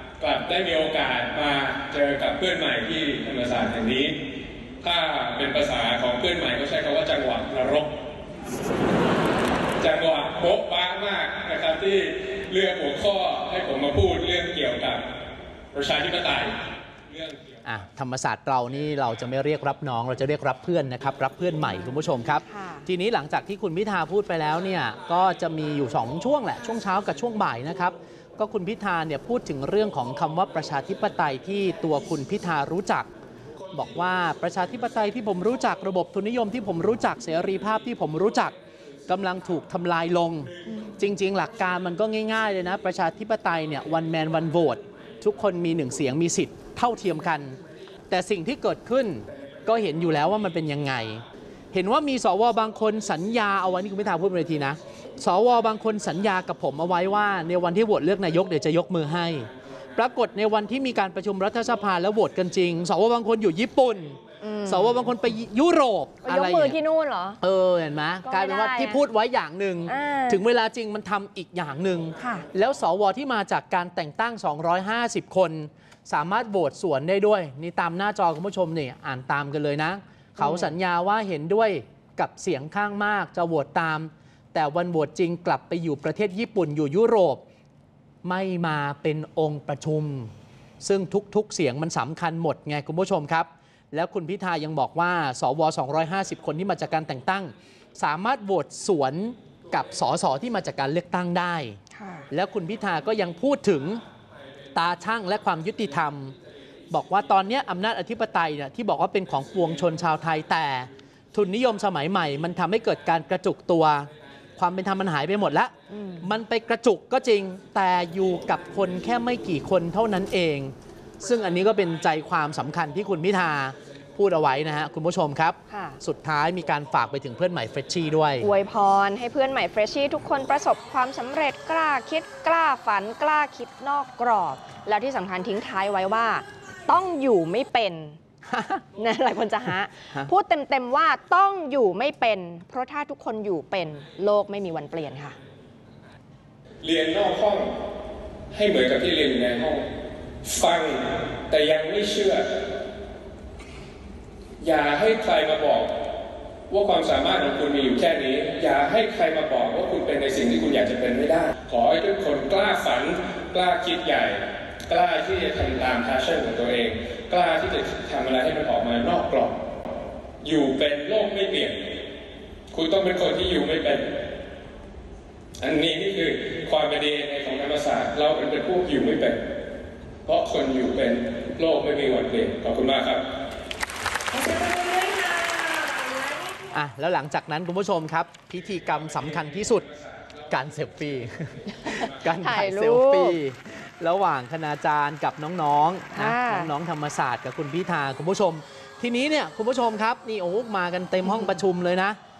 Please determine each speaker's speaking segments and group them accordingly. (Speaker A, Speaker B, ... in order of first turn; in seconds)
Speaker A: 0.2-4.2, 4.8-7.9, 9.8-15.0, 15.7-16.6, 17.1-17.5, 146.8-147.7, 148.5-149.9, 150.4-152.4, 154.6-155.9, 156.7-169.6, 170.4-172.0, 172.7-174.2, 175.6-179.4, 180.2-183.2
Speaker B: 17.6-33.1, 33.7-38.5, 39.1-47.6, 48.1-66.8, 67.4-87.4, 88.2-101.8, 102.3-104.0, 104.7-106.3, 106.9-128.5, 138.5-138.8, 186.7-189.9, 190.5-202.2
Speaker C: 22.5-22.8, 64.4-65.0, 66.2-67.4, 68.2-69.0, 69.9-70.4, 72.2-72.5, 80.4-80.7, 101.9-102.2, 115.9-116.2, 125.7-126.0, 128.4-138.2, 138.9-145.4, 184.4-185.3, 192.2-193.4, 196.1-196.7